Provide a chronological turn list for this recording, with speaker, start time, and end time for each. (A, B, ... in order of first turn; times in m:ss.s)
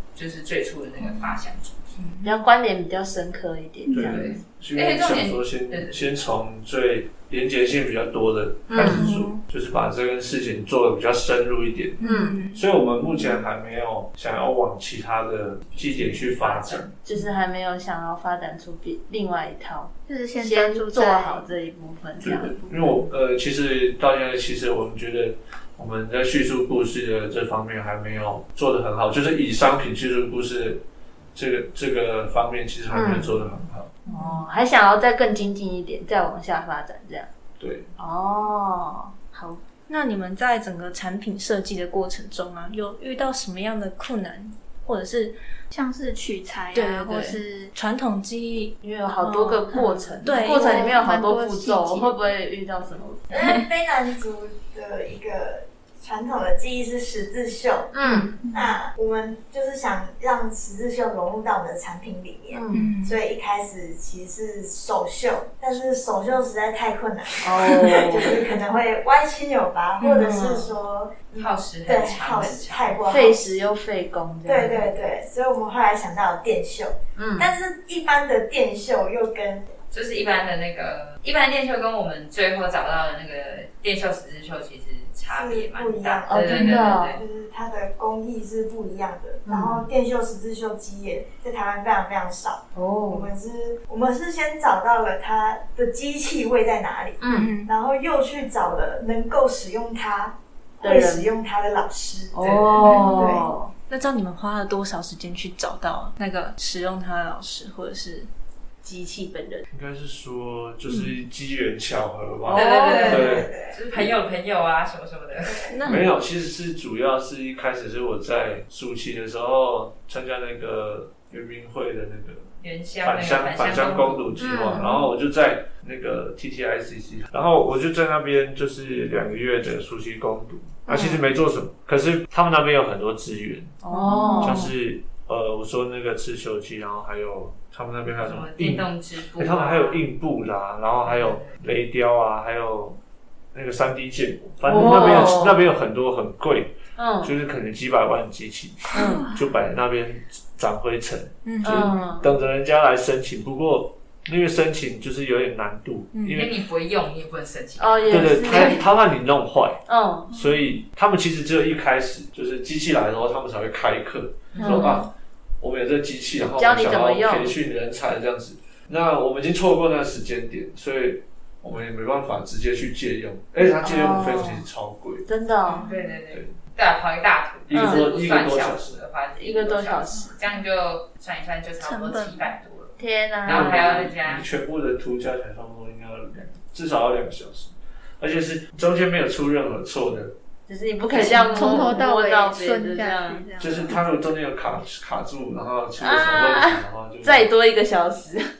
0:00.1-0:01.9 A
0:02.0-0:02.3 B
0:02.2-0:04.2 C
0:03.9-0:12.0 D
0:04.0-0:06.0 A
0:08.7-0:09.1 C
0:08.8-0:09.4 B
0:12.0-0:12.6 B
0:12.0-0:12.4 C
0:12.5-0:16.9 D
0:15.7-0:16.9 A
0:17.0-0:22.5 C
0:20.1-0:21.5 E
0:22.2-0:30.8 D
0:22.4-0:22.8 E
0:31.3-0:33.9 D
0:32.9-0:33.3 C
0:34.0-0:34.4 B
0:34.1-0:37.3 C
0:37.6-0:37.9 D
0:38.0-0:39.6 C
0:39.9-0:45.4 B
0:45.7-0:47.7 E
0:46.7-0:51.0 B
0:48.8-0:53.3 C
0:50.1-0:52.1 E
0:53.3-0:57.9 F
0:57.9-0:58.3 C
0:58.0-0:58.3 B
0:58.5-1:13.6 F
1:02.5-1:02.9 C
1:02.7-1:03.2 B
1:07.4-1:08.4 C
1:10.0-1:10.7 B
1:11.4-1:13.0 A
1:13.1-1:14.9 C
1:14.4-1:19.7 F
1:17.2-1:17.5 C
1:19.9-1:27.2 A
1:25.3-1:43.4 F
1:26.3-1:27.2 C
1:29.4-1:29.8 C
1:32.7-1:33.3 C
1:37.2-1:37.5 C
1:37.3-1:37.7 B
1:40.8-1:41.3 C
1:42.3-1:43.7 C
1:42.8-1:48.3 B
1:48.8-1:49.6 C
1:49.7-1:54.1 D
1:52.4-1:53.3 C
1:52.5-1:55.7 A
1:52.8-1:53.8 F
1:55.4-1:55.7 F
1:55.7-1:56.1 B
1:55.8-2:02.5 D
2:02.6-2:04.3 A
2:03.0-2:13.8 D
2:04.4-2:05.0 C
2:10.9-2:11.2 C
2:13.8-2:14.7 C
2:13.9-2:14.6 B
2:14.4-2:23.0 D
2:18.2-2:20.0 A
2:21.0-2:21.5 A
2:23.5-2:36.5 D
2:24.6-2:25.6 C
2:27.0-2:27.3 C
2:28.9-2:29.3 B
2:31.4-2:32.0 B
2:31.6-2:32.3 C
2:36.1-2:36.4 B
2:36.3-2:38.7 A
2:37.8-2:38.8 C
2:38.1-2:55.3 D
2:39.9-2:40.3 C
2:40.3-2:40.6 E
2:44.5-2:44.9 A
2:44.6-2:45.0 C
2:46.6-2:47.5 C
2:53.8-2:54.6 C
2:55.3-2:55.9 C
2:55.7-2:56.0 E
2:55.8-3:04.4 A
2:57.7-2:59.0 D
2:57.7-2:58.1 C
2:59.4-3:00.3 C
3:01.8-3:02.4 E
3:03.0-3:04.1 C
3:03.5-3:10.3 D
3:10.7-3:13.9 C
3:11.1-3:14.0 E
3:13.6-3:17.5 D
3:16.0-3:18.5 C